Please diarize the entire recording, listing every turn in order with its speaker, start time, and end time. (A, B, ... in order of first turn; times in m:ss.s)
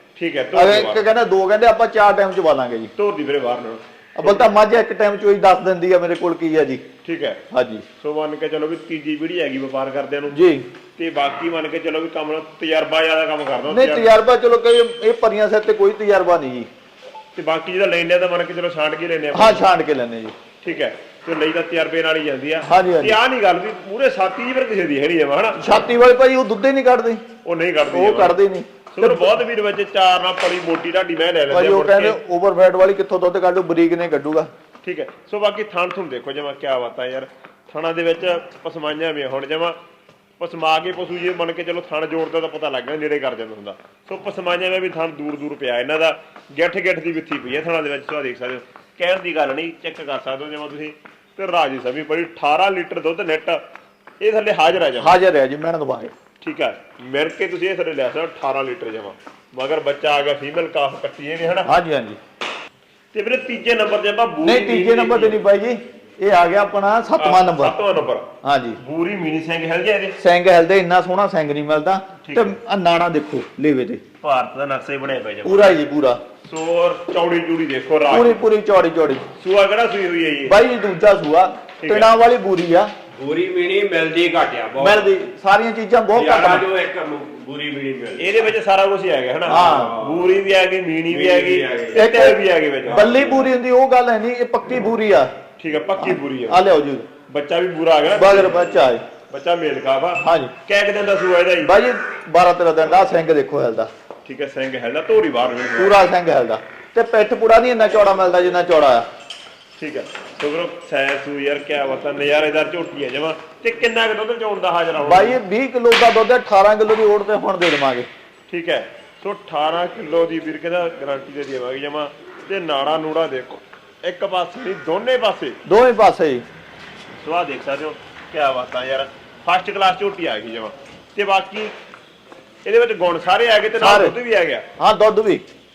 0:00.2-0:01.0 A
0:00.5-0:02.9 B
0:03.0-0:04.5 A
0:04.2-0:06.8 B
0:07.0-0:07.4 A
0:07.5-0:07.8 B
0:08.0-0:10.4 A
0:10.3-0:10.7 B
0:11.0-0:14.1 A
0:13.7-0:16.7 B
0:17.4-0:19.6 A
0:19.3-0:20.3 B
0:20.6-0:25.6 A
0:22.7-0:23.2 B
0:25.6-0:27.2 B
0:27.4-0:28.4 A
0:27.9-0:29.4 B
0:28.9-0:32.2 A
0:31.5-0:34.5 B
0:34.8-0:39.8 A
0:40.4-0:53.6 A
0:54.2-0:55.2 A
0:55.0-0:56.1 B
0:56.4-1:01.7 A
1:01.7-1:02.2 B
1:03.1-1:05.4 A
1:04.4-1:07.8 B
1:07.2-1:10.2 A
1:08.4-1:08.8 B
1:10.2-1:14.0 B
1:12.2-1:12.6 A
1:14.2-1:15.8 A
1:15.4-1:16.2 B
1:16.4-1:18.4 A
1:18.1-1:19.2 B
1:19.4-1:20.6 A
1:20.4-1:22.9 B
1:21.8-1:22.1 A
1:23.1-1:25.1 C
1:24.8-1:26.7 B
1:26.1-1:28.4 C
1:28.2-1:33.5 A
1:29.5-1:30.0 B
1:29.7-1:30.3 C
1:31.1-1:32.0 C
1:31.9-1:35.3 B
1:35.6-1:36.6 A
1:36.0-1:37.1 B
1:37.3-1:38.6 A
1:38.2-1:39.0 B
1:39.3-1:41.8 A
1:40.2-1:40.5 B
1:41.6-1:43.9 B
1:44.2-1:46.1 A
1:45.8-1:49.1 B
1:49.8-1:55.4 A
1:55.0-1:58.1 B
1:58.5-2:05.6 A
2:05.6-2:06.4 B
2:07.2-2:11.8 A
2:12.6-2:14.7 A
2:13.8-2:14.2 B
2:14.8-2:15.4 B